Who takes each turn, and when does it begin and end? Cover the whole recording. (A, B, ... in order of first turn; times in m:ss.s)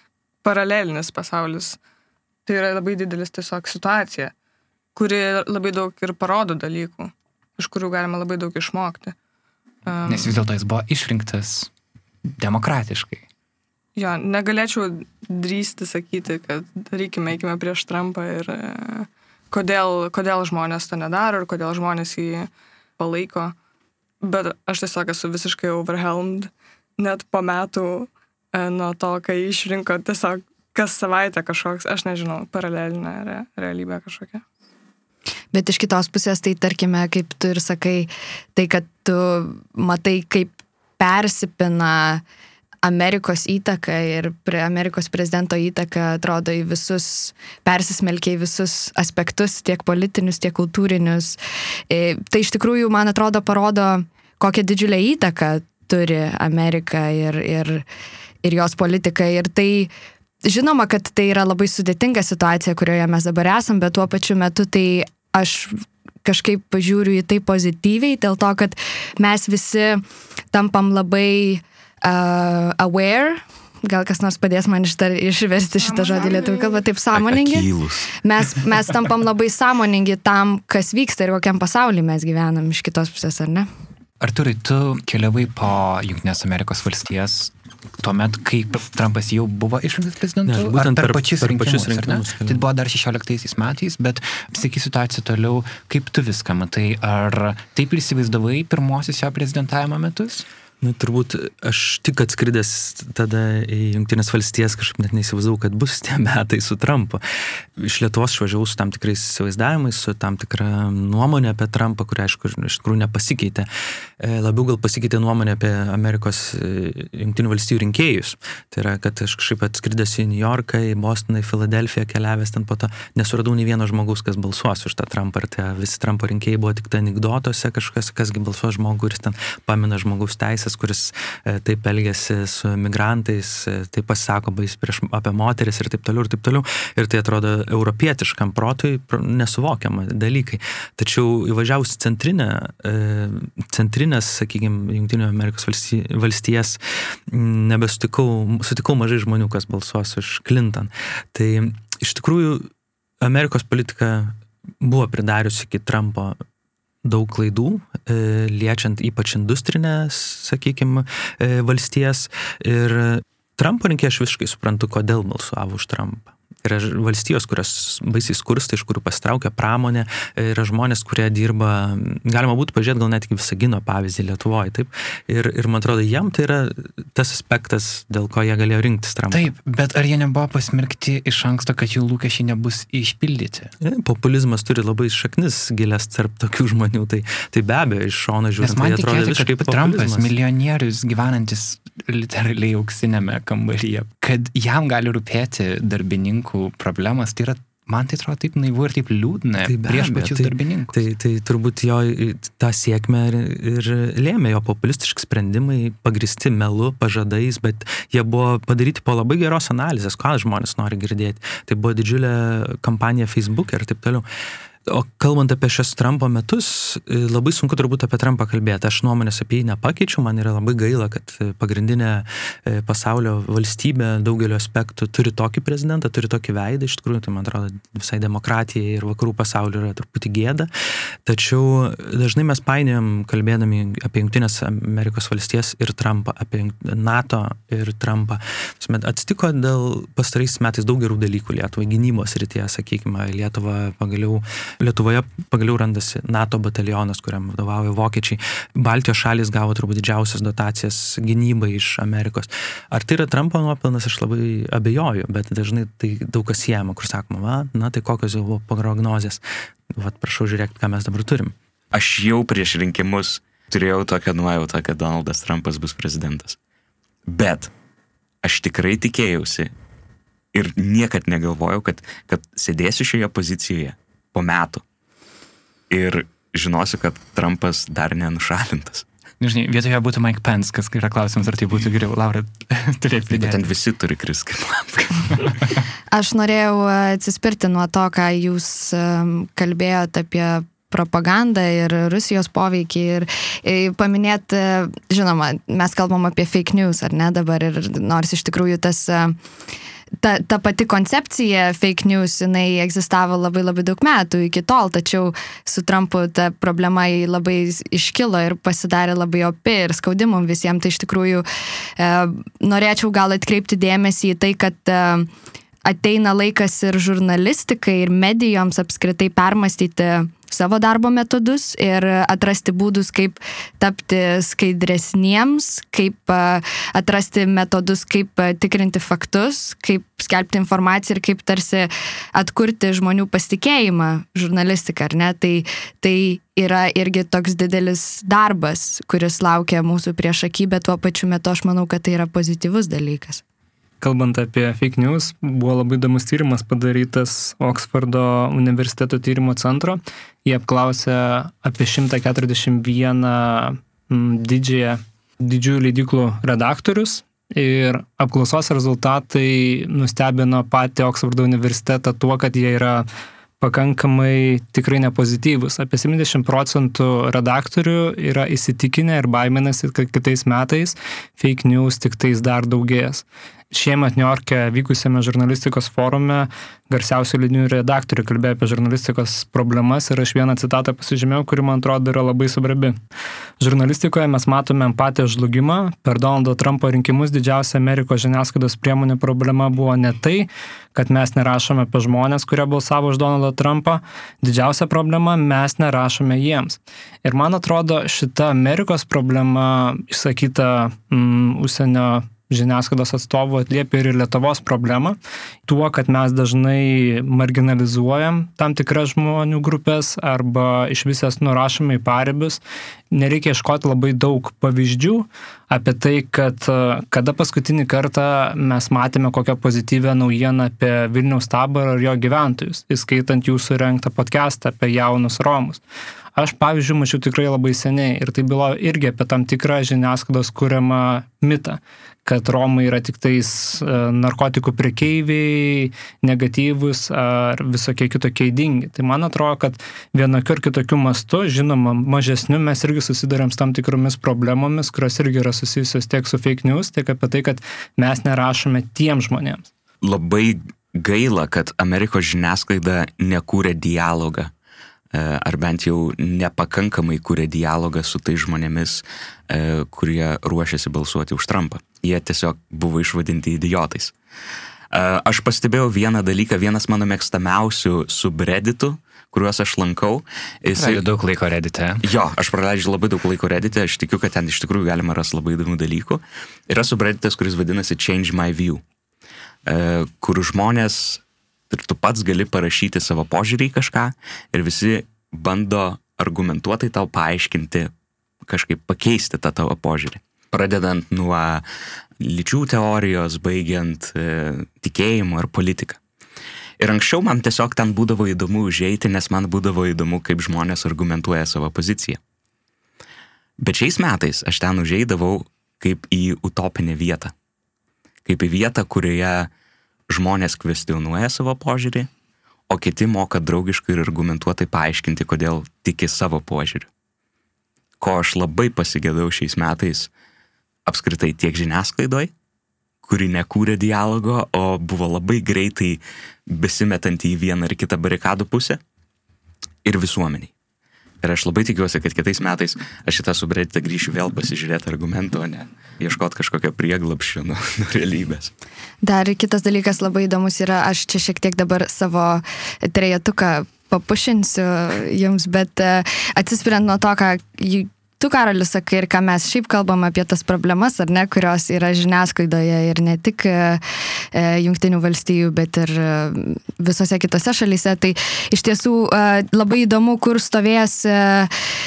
0:00.4-0:01.8 A
0:02.4-0:04.3 A
0:04.9-0:09.1 A
0:09.8-0:10.4 A
0:10.0-0:11.7 B
0:12.3-0:13.2 B
0:14.0-0:23.5 A
0:24.2-0:34.4 A
0:35.5-0:42.2 C
0:42.8-0:57.8 C
0:58.4-0:59.9 C
1:00.4-1:23.7 C
1:15.9-1:16.3 A
1:17.1-1:18.1 D
1:24.2-1:40.4 B
1:30.5-1:32.6 E
1:40.8-1:47.2 E
1:47.8-1:53.7 E
1:54.2-2:32.7 E
2:33.2-2:36.4 E
2:37.0-2:59.5 E
2:59.3-3:03.7 B
3:03.8-3:10.3 E
3:08.6-3:21.0 B
3:19.6-3:34.2 E
3:34.8-3:50.7 E
3:51.2-4:21.5 E
4:21.9-4:26.6 D
4:27.3-4:27.7 D
4:28.4-4:29.7 D
4:30.5-4:34.8 D
4:35.9-4:39.0 D
4:39.4-4:43.7 B
4:43.3-4:45.5 D
4:46.1-4:59.4 C
5:00.2-5:11.4 C
5:12.0-5:15.3 C
5:15.8-5:43.4 C
5:44.0-6:03.0 F
6:03.6-6:23.0 F
6:23.6-6:52.6 F
6:53.1-7:05.8 F
7:06.4-7:29.7 F
7:30.0-7:34.5 D
7:35.1-7:44.1 D
7:44.9-7:51.0 D
7:50.7-7:52.0 B
7:52.0-7:58.8 D
7:59.6-8:07.9 D
8:08.4-8:11.6 D
8:12.2-8:16.0 D
8:16.8-8:22.2 D
8:23.6-8:27.3 D
8:28.2-8:29.5 D
8:30.1-8:32.1 D
8:32.7-8:36.9 D
8:38.0-8:40.1 D
8:40.8-8:42.3 D
8:43.0-8:48.8 D
8:49.8-8:50.5 D
8:51.2-8:58.5 D
8:59.0-9:13.8 C
9:14.3-9:21.5 C